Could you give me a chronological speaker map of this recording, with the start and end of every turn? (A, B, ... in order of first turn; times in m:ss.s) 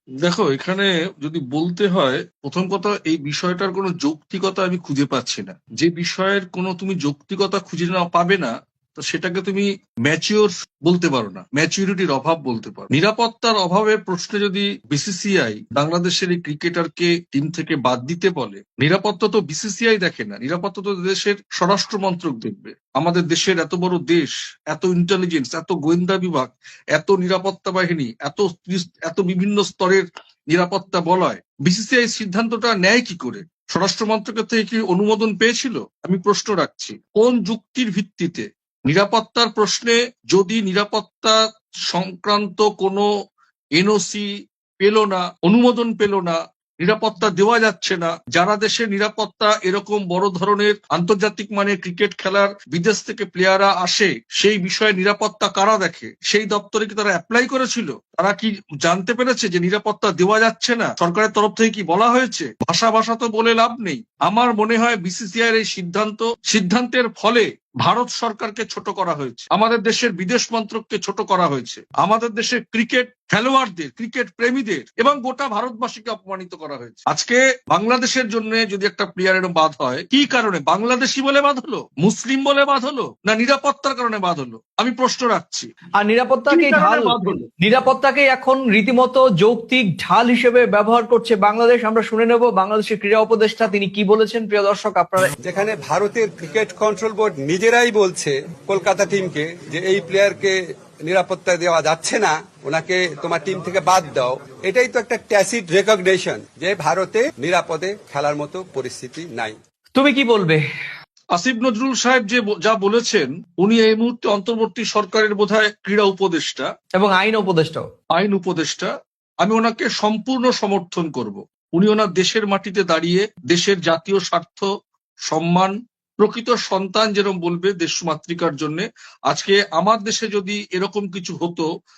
0:00.2-0:41.4 A
0:41.9-0:43.0 A
0:43.8-0:44.2 A
0:44.8-1:25.7 A
1:26.0-1:35.3 B
1:26.5-1:27.4 A
1:35.4-1:49.5 C
1:49.9-1:50.6 B
1:51.3-1:56.7 A
1:57.0-1:57.8 B
1:58.1-1:58.9 A
1:59.4-2:04.7 A
2:05.3-2:11.6 A